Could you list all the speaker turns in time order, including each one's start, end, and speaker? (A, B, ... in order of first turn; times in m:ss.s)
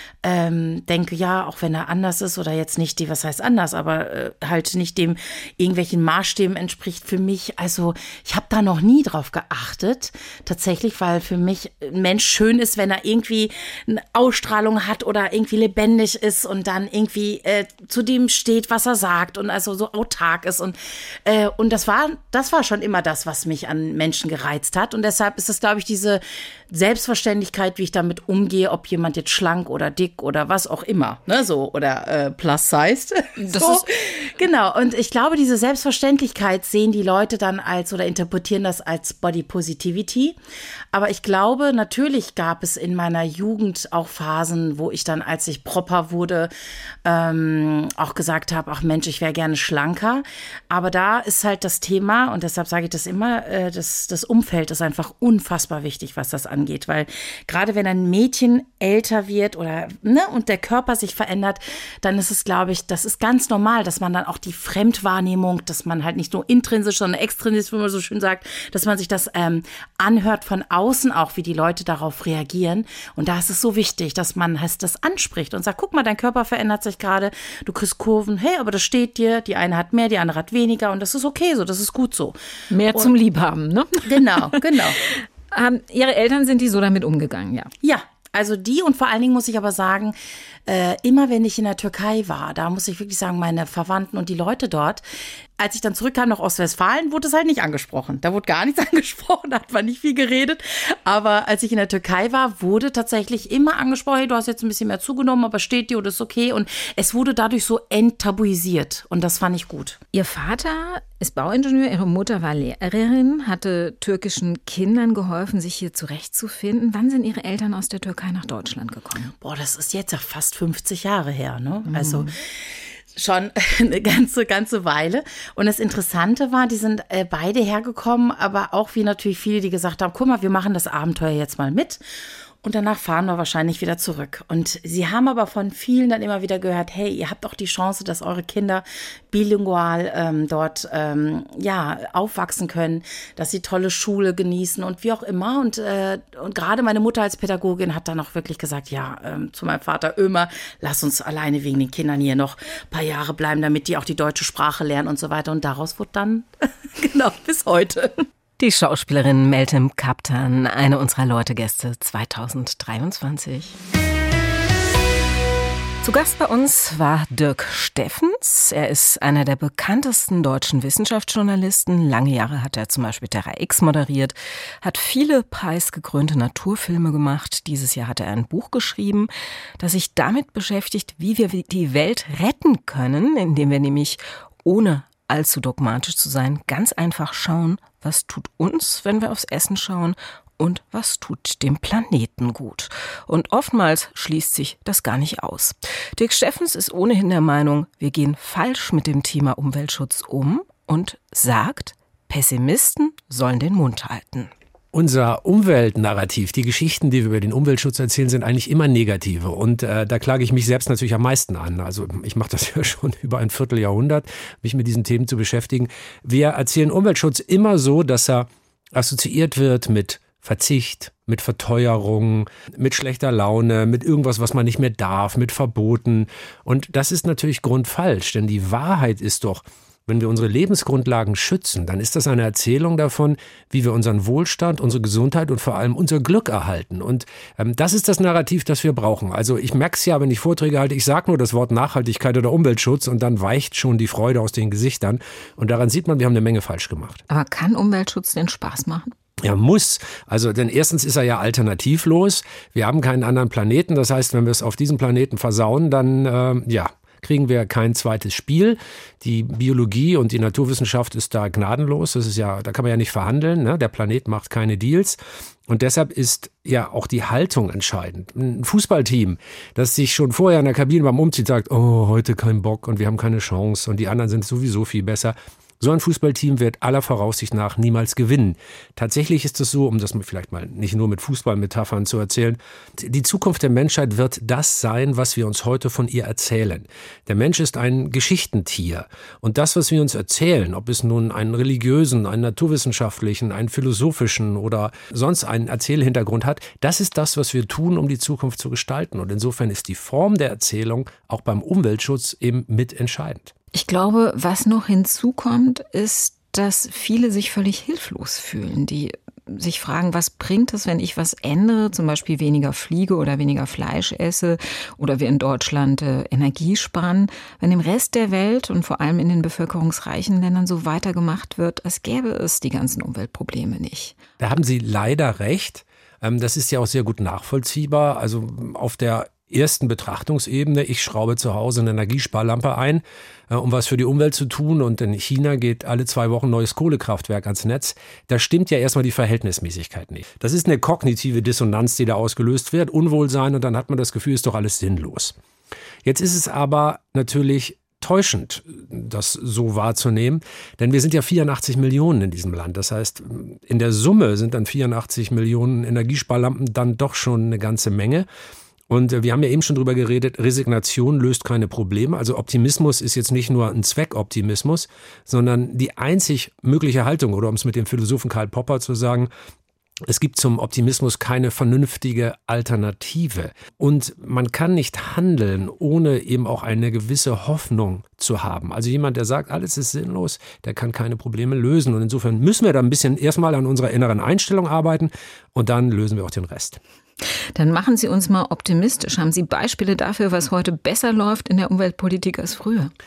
0:00.2-0:40.4 A
0:33.4-0:33.9 B
0:40.9-0:46.5 A
0:47.0-1:22.4 A
1:22.7-1:27.7 B
1:24.1-1:25.0 A
1:27.8-1:30.2 A
1:30.7-1:35.0 A
1:35.6-1:50.0 A
1:50.1-1:59.3 B
1:59.4-2:02.4 A
2:01.9-2:02.3 B
2:03.2-2:12.0 A
2:12.6-2:38.2 A
2:38.6-2:43.8 C
2:46.0-3:24.5 C
3:24.9-4:07.2 D
4:07.3-4:09.1 B
4:09.4-5:03.5 D
5:03.7-5:24.2 B
5:24.4-5:45.4 D
5:46.0-5:58.3 D
5:58.9-6:09.3 D
6:10.1-6:26.8 D
6:27.6-6:32.9 B